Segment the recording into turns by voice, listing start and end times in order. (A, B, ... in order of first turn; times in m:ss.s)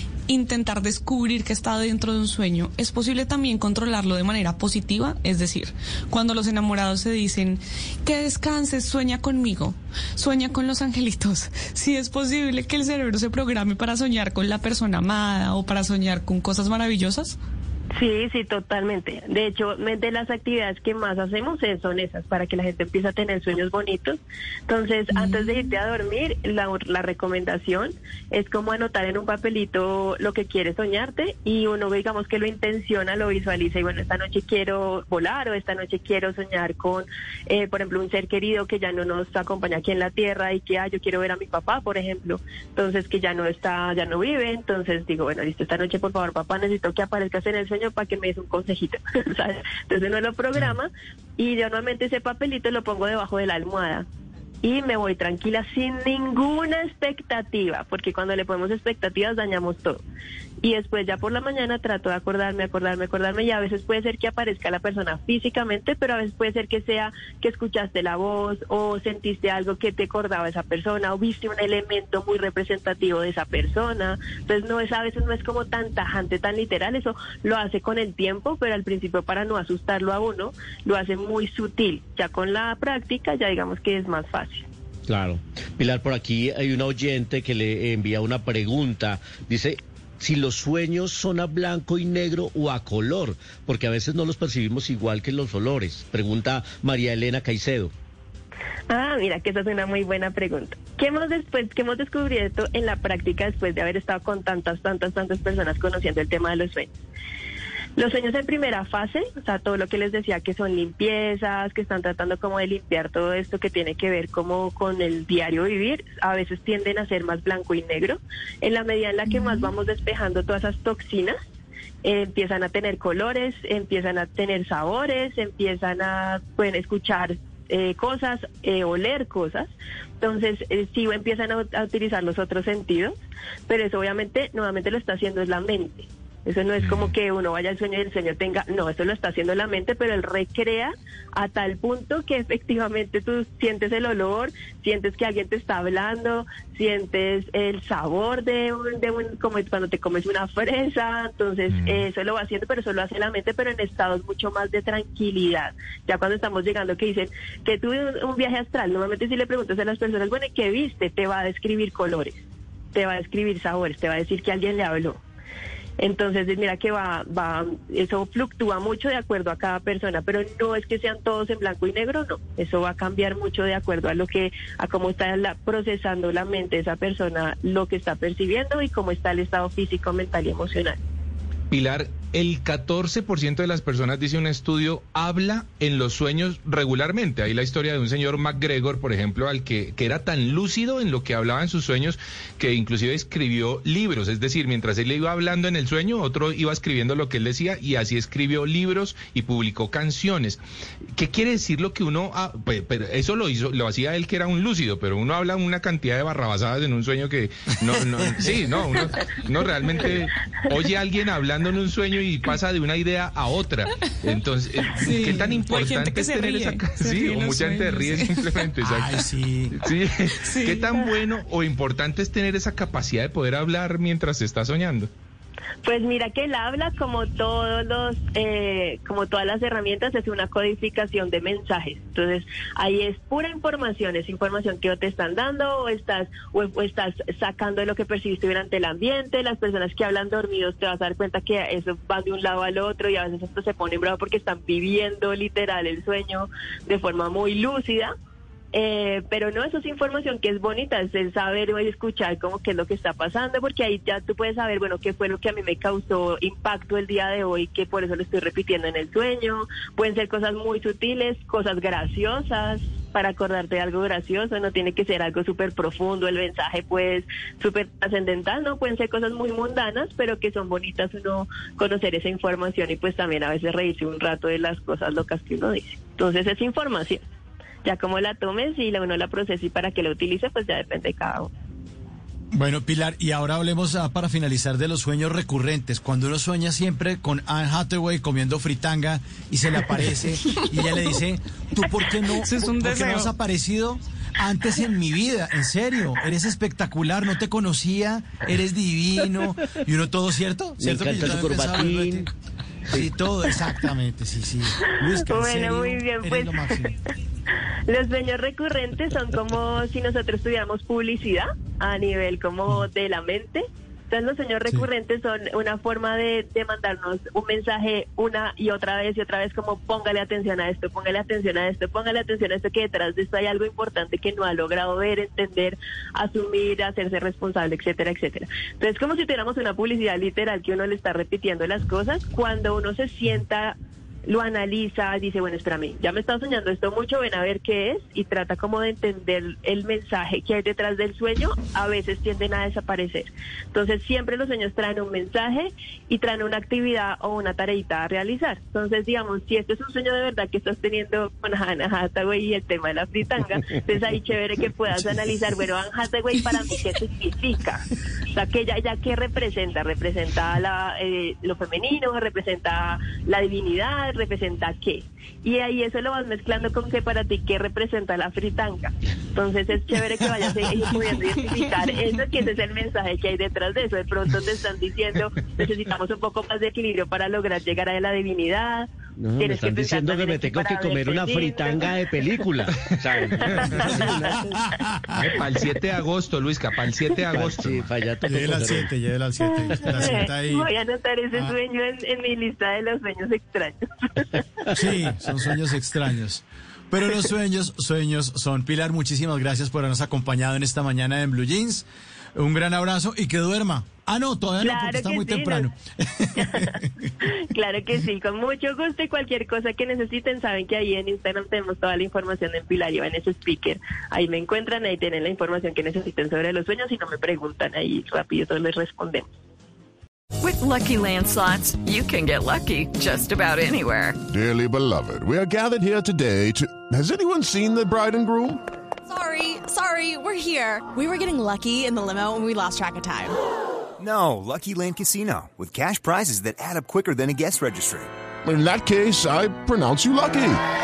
0:00.3-0:17.4 A
0:17.9-0:54.0 B
0:25.1-0:25.6 A
0:54.6-1:00.0 B
1:00.6-1:24.6 B
1:25.1-1:37.9 C
1:38.9-1:46.9 B
1:48.0-2:01.4 B
1:59.3-1:59.7 A
2:02.0-2:09.7 B
2:10.2-2:13.2 B
2:13.7-2:42.4 B
2:16.8-2:17.1 D
2:31.7-2:32.0 D
2:42.9-2:45.2 B
2:46.0-3:01.0 B
3:01.7-3:20.6 D
3:21.1-3:45.1 D
3:34.9-3:38.6 A
3:38.8-3:39.8 E
3:40.4-3:40.9 A
3:45.8-4:08.1 B
4:08.7-4:37.2 B
4:37.8-4:41.5 B
4:42.5-5:02.3 E
4:52.3-4:53.3 A
5:00.8-5:02.3 C
5:02.9-5:07.0 E
5:05.2-5:06.8 B
5:07.9-6:22.0 B
6:19.2-6:25.4 C
6:23.4-6:23.9 B
6:23.6-6:23.8 D
6:24.5-6:25.2 E
6:25.2-6:27.9 D
6:27.3-6:28.9 C
6:28.2-6:30.7 E
6:29.4-6:34.4 B
6:29.8-6:30.2 C
6:34.7-6:46.9 E
6:44.6-6:45.7 B
6:46.4-6:59.3 B
7:00.4-7:04.2 F
7:04.3-7:08.6 G
7:09.1-7:13.4 H
7:14.0-7:18.1 I
7:18.4-7:20.6 G